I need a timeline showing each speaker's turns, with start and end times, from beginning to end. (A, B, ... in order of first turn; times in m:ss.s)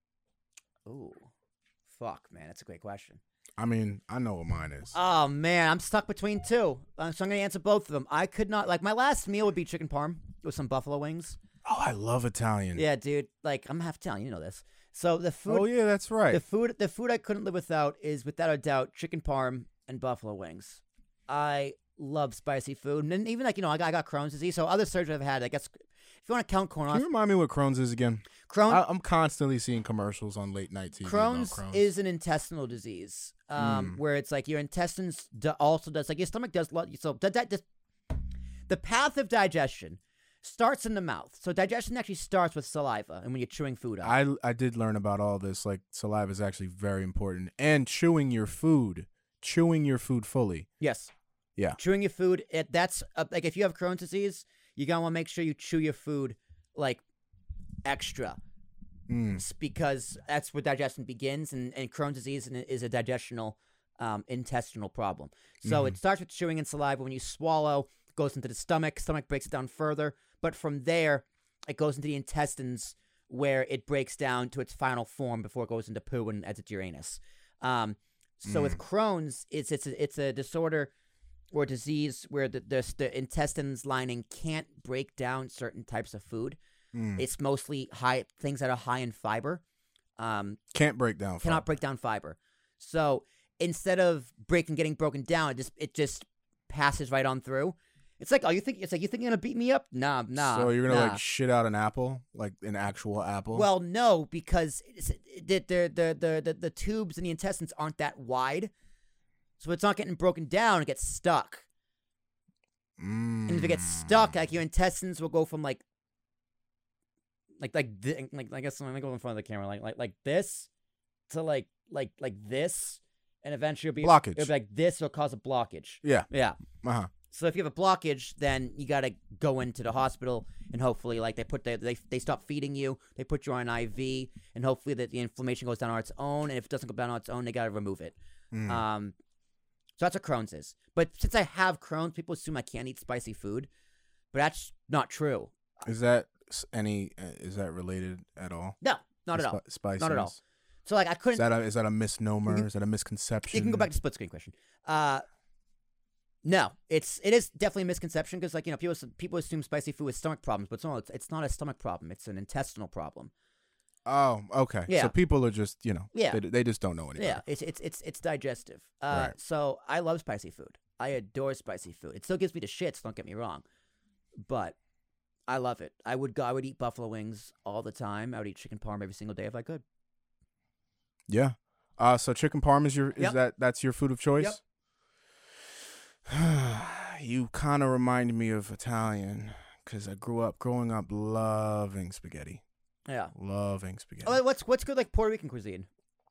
0:00.9-0:01.3 A
0:01.9-0:03.2 A
0:03.6-0:05.0 B
0:04.9-0:11.4 A
0:11.6-0:12.8 B
0:12.8-0:15.7 A
0:15.5-0:16.4 B
0:16.3-0:25.7 A
0:26.2-0:27.1 A
0:26.9-0:31.9 B
0:28.5-0:28.8 A
0:31.0-0:37.6 A
0:33.6-0:34.0 B
0:38.7-0:44.1 A
0:44.0-0:50.7 B
0:50.8-0:51.1 A
0:51.8-0:57.0 A
0:57.8-0:58.4 A
0:59.1-0:59.4 B
0:59.4-1:20.9 A
1:05.6-1:06.0 B
1:18.5-1:18.8 B
1:21.5-1:26.6 A
1:26.9-1:27.2 B
1:27.2-1:29.6 A
1:30.2-1:30.6 A
1:30.7-1:31.7 B
1:31.4-1:41.2 A
1:40.3-1:43.7 B
1:43.5-1:48.7 A
1:49.6-1:51.6 A
1:53.0-1:54.4 B
1:53.5-1:55.8 A
1:57.6-2:00.7 A
2:01.3-2:06.6 A
2:04.0-2:04.5 B
2:06.0-2:07.1 B
2:07.3-2:18.2 A
2:18.5-2:18.8 B
2:18.7-2:19.2 A
2:20.0-2:23.7 A
2:24.3-2:25.8 A
2:25.8-2:28.8 B
2:28.8-2:31.4 A
2:29.3-2:30.4 B
2:31.3-2:33.9 B
2:33.5-2:35.2 A
2:36.4-2:43.3 A
2:44.1-2:47.4 B
2:44.9-2:45.2 A
2:46.1-2:46.4 A
2:47.2-2:53.6 A
2:54.4-2:54.8 A
2:55.5-2:59.8 A
3:01.3-3:04.6 B
3:06.3-3:12.6 B
3:13.1-3:13.3 A
3:13.3-3:14.4 B
3:14.2-3:15.9 A